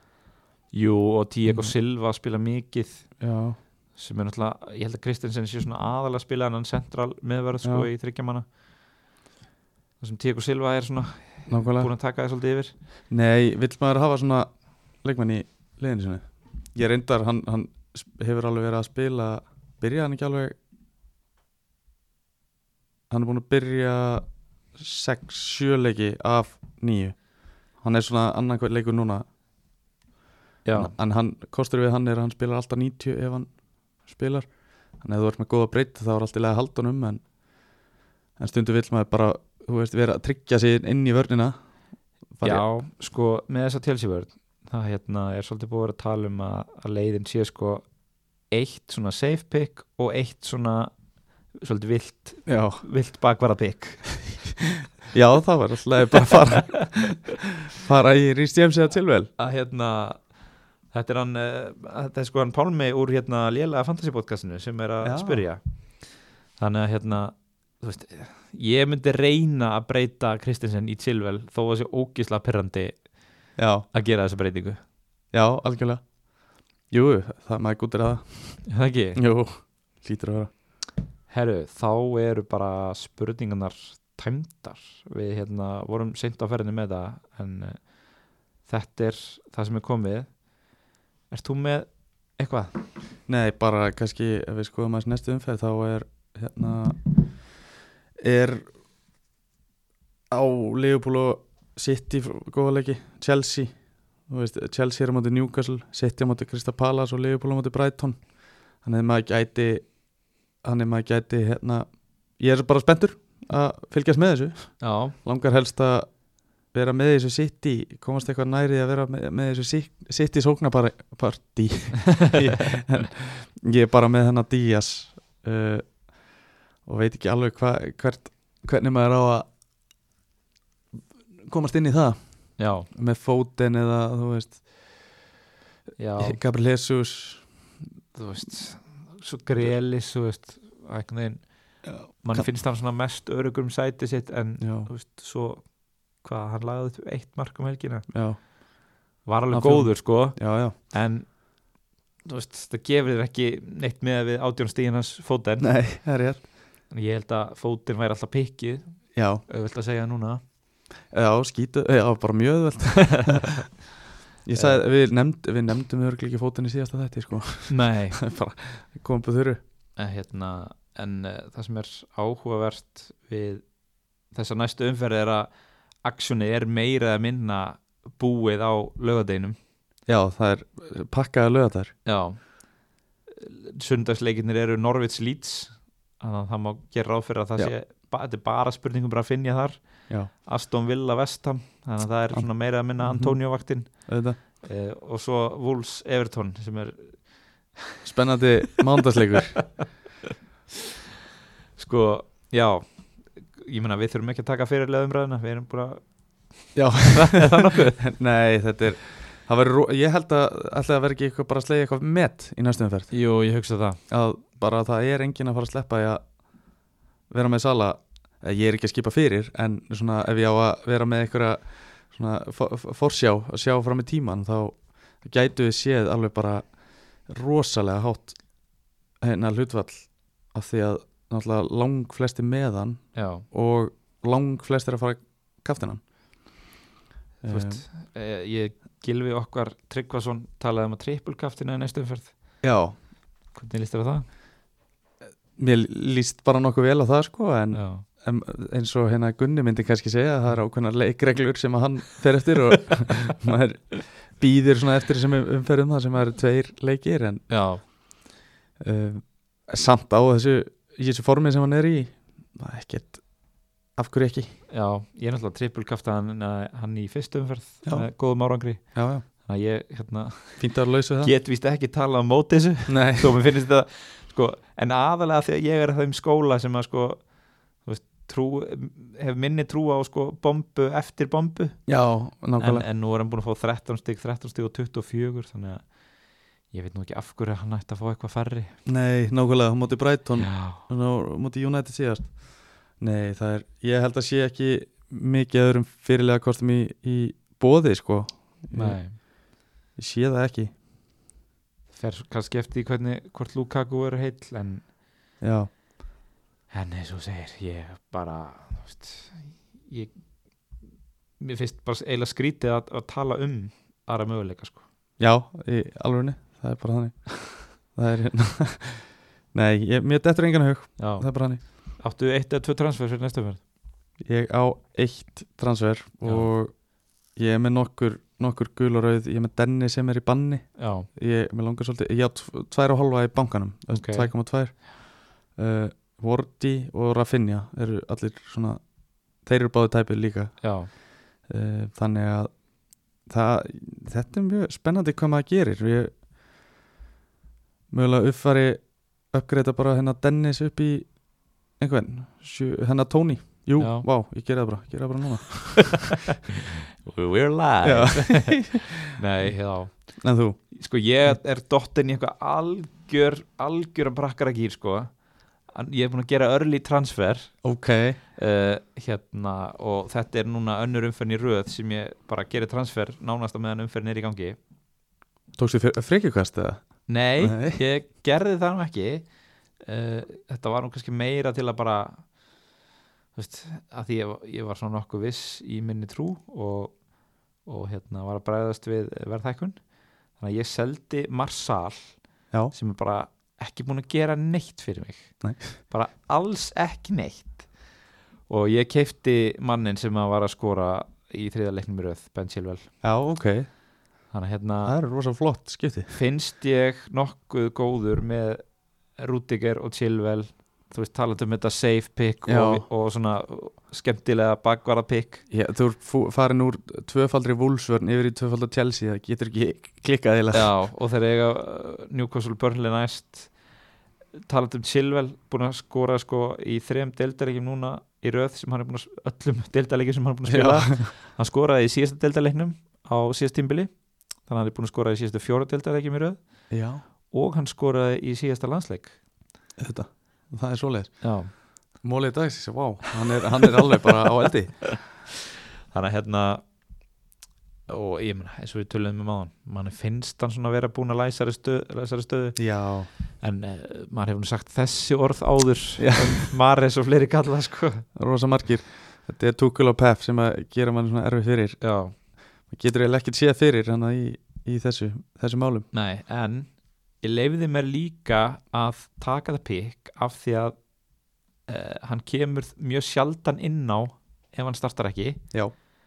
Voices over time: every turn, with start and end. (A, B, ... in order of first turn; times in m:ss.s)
0:00.7-0:03.2 A
0:01.4-0:01.7 B
0:03.2-0:03.6 B
0:03.9-0:08.4 A
0:07.6-0:07.9 B
0:10.0-0:12.7 A
0:11.5-0:11.9 B
0:13.1-0:20.5 B
0:23.1-0:29.2 B
0:30.6-0:30.9 A
0:30.7-0:37.2 B
0:38.4-0:41.5 B
0:42.4-0:42.6 B
0:42.4-0:47.8 A
0:48.5-0:50.9 A
0:51.5-0:54.4 A
0:52.4-0:52.8 B
0:55.1-0:59.3 B
0:59.4-1:00.3 A
1:00.9-1:05.6 A
1:05.0-1:05.4 B
1:06.6-1:13.1 A
1:13.6-1:13.9 B
1:13.9-1:14.8 A
1:15.3-1:16.0 B
1:16.9-1:20.5 B
1:18.6-1:19.2 A
1:21.3-1:28.0 A
1:28.6-1:30.5 A
1:31.3-1:32.8 A
1:33.3-1:37.5 B
1:38.2-1:38.6 B
1:40.3-1:50.0 B
1:50.6-1:56.1 B
1:54.8-1:55.2 A
1:56.7-2:06.0 B
2:02.2-2:02.7 A
2:06.8-2:09.4 B
2:11.4-2:15.2 B
2:12.6-2:12.9 A
2:16.0-2:16.4 A
2:16.2-2:17.6 B
2:18.1-2:28.1 A
2:24.6-2:24.9 B
2:28.1-2:28.4 B
2:29.2-2:31.4 A
2:29.5-2:30.7 B
2:32.2-2:35.7 A
2:35.6-2:36.4 B
2:36.9-2:40.4 A
2:39.1-2:39.4 B
2:41.1-2:43.7 B
2:44.4-2:49.6 B
2:44.5-2:44.8 A
2:47.7-2:48.2 A
2:50.0-2:53.7 A
2:54.3-2:59.6 A
3:00.1-3:01.9 B
3:02.0-3:18.0 A
3:12.3-3:14.4 B
3:18.0-3:19.7 B
3:21.8-3:28.0 A
3:26.7-3:33.1 B
3:33.1-3:34.0 A
3:34.1-3:36.2 B
3:37.3-3:48.4 B
3:49.2-3:56.0 B
3:53.1-3:53.4 A
3:57.4-3:57.8 B
3:57.5-4:02.3 A
4:02.6-4:02.9 B
4:03.5-4:04.3 A
4:05.6-4:17.9 B
4:07.7-4:08.0 A
4:17.5-4:17.8 A
4:18.8-4:23.3 B
4:23.9-4:24.5 B
4:24.7-4:41.9 A
4:27.8-4:28.1 B
4:28.8-4:29.2 B
4:30.6-4:31.3 B
4:32.9-4:33.4 B
4:41.9-4:42.8 B
4:42.6-4:46.0 A
4:46.7-4:48.8 A
4:48.8-4:59.3 B
4:50.4-4:50.8 A
4:58.7-4:59.2 A
5:00.0-5:00.7 B
5:01.9-5:04.9 A
5:05.4-5:05.7 B
5:06.7-5:10.2 A
5:11.4-5:14.8 A
5:15.2-5:21.6 B
5:21.0-5:23.6 A
5:24.2-5:38.8 B
5:26.2-5:26.5 A
5:30.8-5:31.1 A
5:33.9-5:34.3 A
5:39.4-5:42.6 B
5:40.6-5:40.9 A
5:43.2-5:46.1 B
5:47.9-5:56.2 B
5:53.8-5:54.1 A
5:57.0-6:07.6 A
5:57.8-5:59.5 B
6:00.2-6:00.6 B
6:07.6-6:08.2 B
6:08.3-6:14.6 A
6:15.6-6:17.8 B
6:17.1-6:19.3 A
6:19.8-6:22.3 A
6:23.3-6:27.0 A
6:27.6-6:29.8 A
6:30.3-6:37.7 A
6:35.4-6:35.7 B
6:38.5-6:42.9 A
6:43.0-6:43.7 B
6:44.3-6:45.0 A
6:44.8-6:46.1 B
6:46.1-6:55.4 A
6:52.4-6:52.8 B
6:55.5-7:00.7 B
7:00.5-7:03.6 A
7:04.5-7:16.8 A
7:10.5-7:11.1 B
7:16.7-7:17.0 B
7:17.3-7:19.2 A
7:19.8-7:25.1 B
7:21.2-7:21.5 A
7:25.9-7:26.6 A
7:27.9-7:32.6 A
7:32.6-7:33.1 B
7:33.4-7:38.1 A
7:36.0-7:36.5 B
7:38.2-7:41.8 B
7:41.8-7:42.1 A
7:42.7-7:45.9 B
7:45.9-7:50.8 A
7:51.6-7:55.4 A